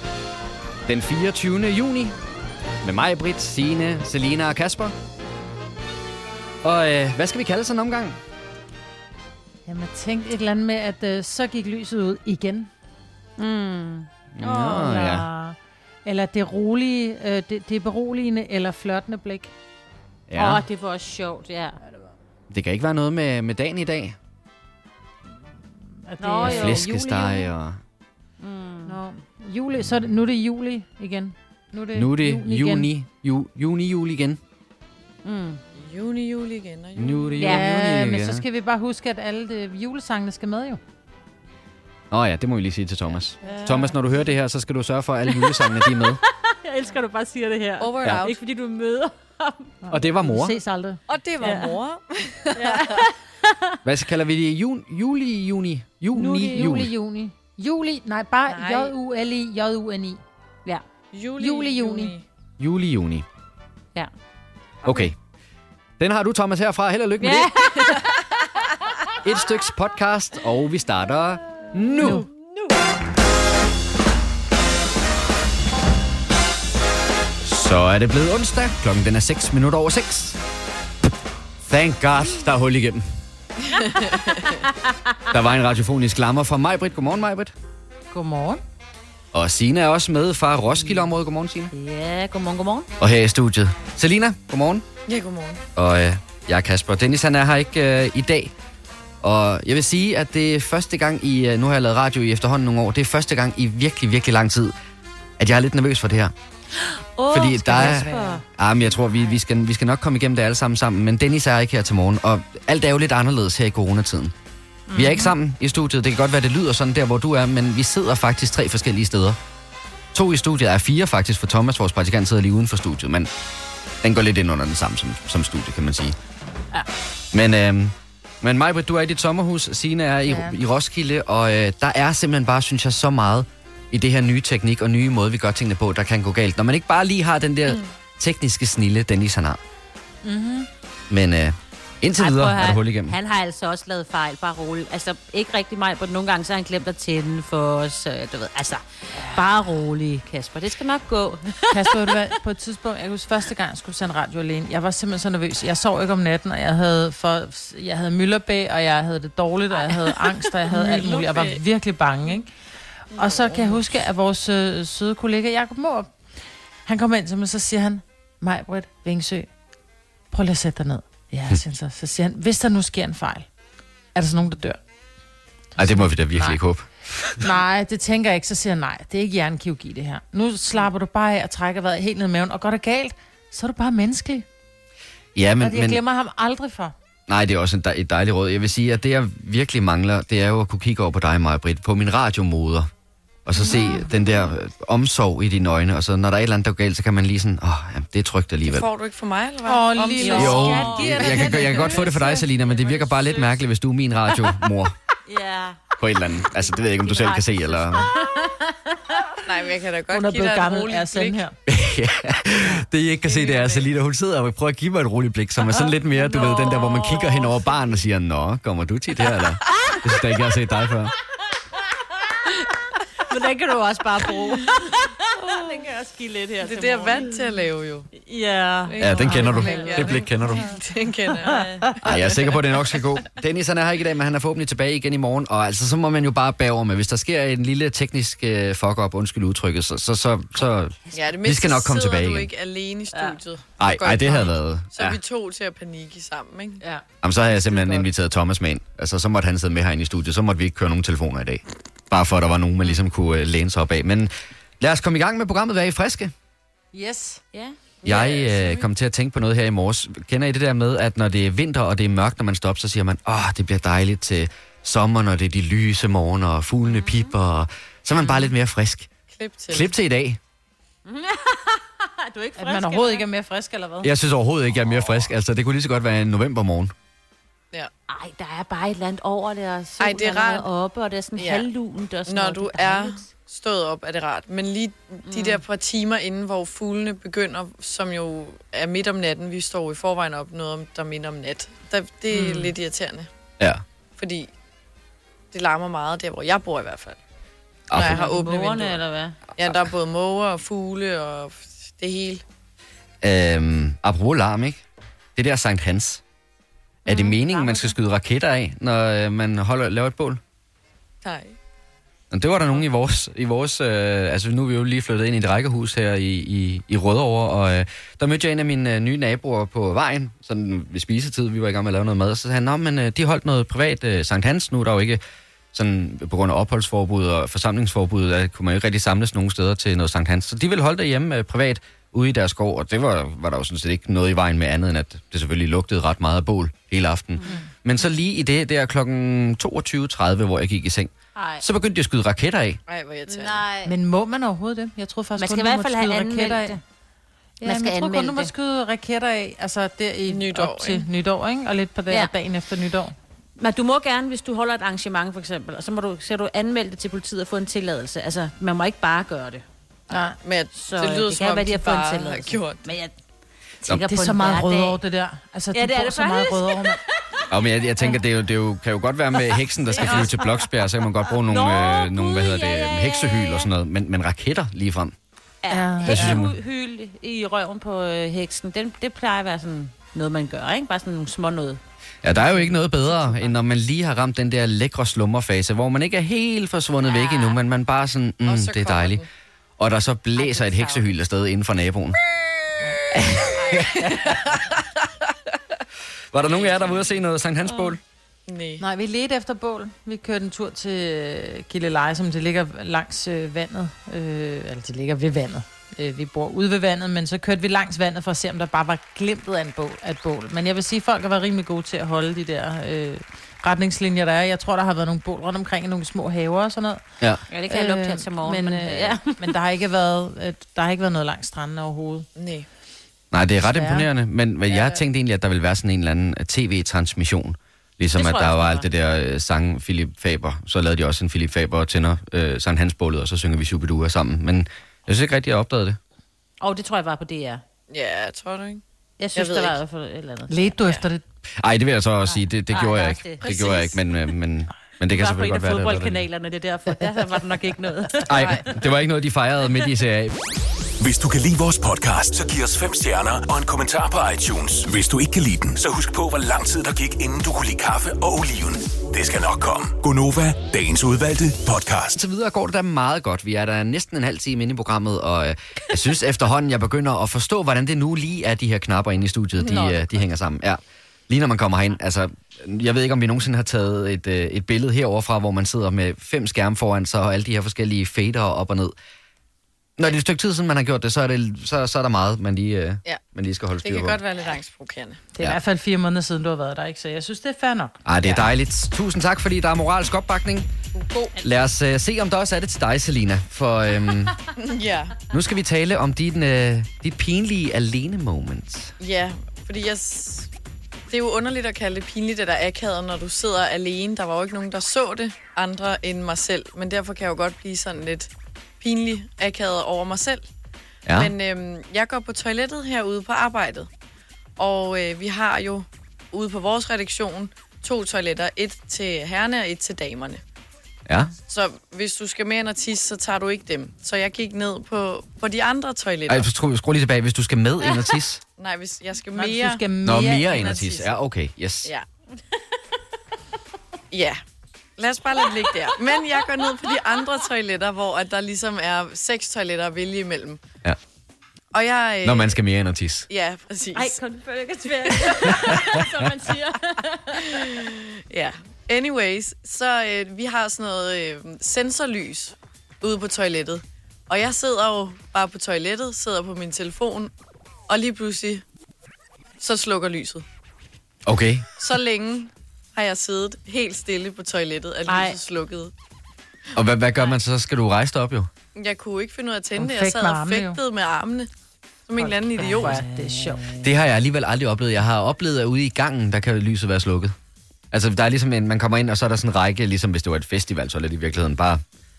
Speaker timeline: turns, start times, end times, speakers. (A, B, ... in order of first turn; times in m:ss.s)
0:00.8-0:02.2 A
0:02.8-0:05.0 A
0:06.6-0:08.2 A
0:09.6-0:12.7 B
0:13.4-0:14.1 C
0:14.3-0:15.3 A
0:14.4-0:19.5 B
0:20.3-0:20.6 A
0:20.4-0:21.8 C
0:22.5-0:24.2 A
0:26.1-0:27.4 B
0:26.2-0:26.8 C
0:26.4-0:27.8 A
0:28.4-0:29.0 C
0:28.8-0:32.9 B
0:31.9-0:34.4 A
0:35.2-0:35.6 C
0:35.7-0:37.5 D
0:36.9-0:38.4 A
0:37.4-0:37.6 C
0:37.4-0:40.8 B
0:42.1-0:46.2 A
0:43.5-0:43.8 B
0:45.3-0:49.7 C
0:47.8-0:48.4 D
0:49.8-0:51.0 B
0:49.9-0:50.6 A
0:51.1-0:53.0 D
0:51.4-0:51.8 C
0:52.5-0:53.5 C
0:53.8-0:56.9 A
0:56.1-1:00.2 B
1:01.1-1:02.2 D
1:01.4-1:02.1 B
1:02.6-1:03.2 A
1:04.8-1:05.1 A
1:06.0-1:08.0 A
1:07.2-1:08.1 C
1:09.2-1:12.3 A
1:12.0-1:12.3 C
1:17.4-1:20.4 A
1:21.6-1:23.0 A
1:23.7-1:24.5 D
1:25.3-1:27.5 A
1:28.1-1:28.6 B
1:29.3-1:31.7 A
1:31.7-1:32.9 C
1:33.0-1:34.8 A
1:35.1-1:35.6 D
1:35.8-1:38.5 A
1:39.2-1:44.7 A
1:45.4-1:46.3 A
1:46.8-1:48.4 C
1:47.3-1:54.3 A
1:47.6-1:48.4 B
1:54.9-1:55.3 C
1:54.9-1:59.4 A
2:00.1-2:03.3 A
2:04.0-2:06.2 A
2:07.3-2:19.6 A
2:10.3-2:10.5 B
2:20.2-2:20.7 B
2:21.1-2:23.1 A
2:22.2-2:32.1 C
2:31.7-2:42.5 B
2:40.7-2:41.2 C
2:40.7-2:41.6 D
2:43.1-2:43.8 D
2:43.1-2:46.3 B
2:46.8-2:49.5 B
2:50.3-2:53.5 B
2:54.1-2:54.8 B
2:55.8-2:56.6 B
2:55.8-2:57.3 A
2:57.4-3:04.4 B
3:05.3-3:06.0 A
3:05.6-3:06.9 B
3:07.3-3:12.9 A
3:13.4-3:18.9 A
3:13.6-3:14.1 B
3:18.6-3:21.7 D
3:19.7-3:22.4 B
3:20.2-3:23.5 C
3:20.3-3:25.0 A
3:25.2-3:25.8 C
3:26.0-3:28.0 A
3:27.0-3:28.5 C
3:29.4-3:31.4 D
3:30.1-3:31.5 B
3:31.6-3:41.1 A
3:33.2-3:33.9 D
3:36.1-3:37.3 C
3:43.2-3:47.3 C
3:44.6-3:44.9 D
3:46.6-3:48.1 D
3:48.1-3:50.6 C
3:48.9-3:52.6 D
3:49.0-3:50.7 A
3:49.5-3:49.8 B
3:51.4-3:51.9 C
3:52.0-4:02.5 A
4:01.1-4:06.8 D
4:03.8-4:05.2 A
4:06.8-4:08.1 B
4:07.2-4:16.3 A
4:16.9-4:17.4 B
4:18.0-4:29.1 A
4:18.0-4:18.6 D
4:29.3-4:29.9 D
4:29.7-4:30.4 A
4:31.0-4:33.3 C
4:32.6-4:34.1 B
4:34.0-4:36.9 A
4:38.1-4:43.3 C
4:40.0-4:40.6 D
4:41.4-4:41.7 D
4:42.2-4:53.3 D
4:45.2-4:45.6 C
4:52.3-4:52.7 C
4:54.2-4:54.5 D
4:55.5-4:57.2 D
4:57.9-4:58.2 A
4:57.9-4:59.0 D
4:57.9-4:59.5 C
4:59.5-5:02.4 D
5:03.2-5:04.8 A
5:05.4-5:06.2 A
5:07.0-5:10.4 A
5:11.2-5:11.6 D
5:12.3-5:25.2 A
5:25.7-5:42.8 A
5:41.4-5:41.6 C
5:42.9-5:43.6 D
5:43.3-5:43.9 C
5:43.8-5:46.8 B
5:45.4-5:46.8 C
5:47.6-5:53.1 B
5:47.6-5:48.5 C
5:50.3-5:51.1 D
5:53.6-5:59.6 C
6:00.1-6:02.9 D
6:00.1-6:00.4 B
6:00.7-6:03.2 C
6:03.8-6:05.0 C
6:03.9-6:07.0 B
6:05.7-6:07.4 C
6:07.5-6:15.1 A
6:09.5-6:10.7 C
6:11.4-6:13.7 C
6:15.6-6:21.8 C
6:15.7-6:16.4 B
6:16.1-6:16.5 A
6:22.2-6:29.2 A
6:22.3-6:23.5 C
6:27.0-6:27.6 C
6:28.4-6:29.3 D
6:29.8-6:32.2 A
6:30.4-6:31.1 C
6:33.1-6:34.4 A
6:33.4-6:35.3 D
6:36.3-6:38.0 A
6:36.5-6:36.9 D
6:37.6-6:38.0 C
6:38.5-6:38.8 D
6:38.8-6:57.0 B
6:57.5-6:59.5 C
6:57.7-7:02.3 B
7:02.3-7:02.6 D
7:03.3-7:16.0 A
7:03.6-7:04.1 B
7:04.7-7:05.0 D
7:08.1-7:08.8 C
7:16.6-7:17.6 C
7:17.9-7:18.8 D
7:19.2-7:21.0 C
7:19.3-7:19.8 D
7:20.5-7:21.2 B
7:21.6-7:26.2 A
7:22.2-7:23.5 C
7:23.4-7:24.0 D
7:25.1-7:28.5 C
7:28.2-7:28.6 D
7:28.3-7:30.4 A
7:31.0-7:42.2 E
7:42.2-7:58.9 A
7:49.6-7:50.2 D
8:00.0-8:04.2 A
8:03.8-8:05.2 D
8:05.3-8:08.0 B
8:08.0-8:10.7 A
8:08.2-8:08.5 D
8:10.9-8:11.4 D
8:11.4-8:14.4 A
8:14.6-8:15.2 D
8:15.3-8:18.9 A
8:19.0-8:20.5 D
8:21.1-8:30.5 D
8:31.0-8:31.3 A
8:31.1-8:33.9 D
8:34.6-8:40.4 D
8:41.1-8:41.3 A
8:41.5-8:46.5 D
8:46.3-8:48.4 A
8:48.6-8:49.9 D
8:49.3-8:51.1 B
8:50.0-8:51.9 A
8:54.1-8:54.4 D
8:55.0-9:00.6 D
8:55.9-8:56.4 C
8:56.9-8:57.2 C
9:01.7-9:02.6 D
9:02.2-9:03.3 A
9:03.3-9:04.2 D
9:03.9-9:07.8 C
9:07.5-9:17.3 D
9:17.9-9:18.6 D
9:19.6-9:20.4 D
9:21.2-9:21.6 A
9:21.8-9:25.9 D
9:25.0-9:25.4 C
9:26.7-9:28.5 A
9:28.7-9:31.5 D
9:29.7-9:30.8 B
9:32.1-9:33.0 D
9:32.2-9:33.7 B
9:32.6-9:33.9 C
9:33.8-9:37.3 A
9:37.9-9:41.8 A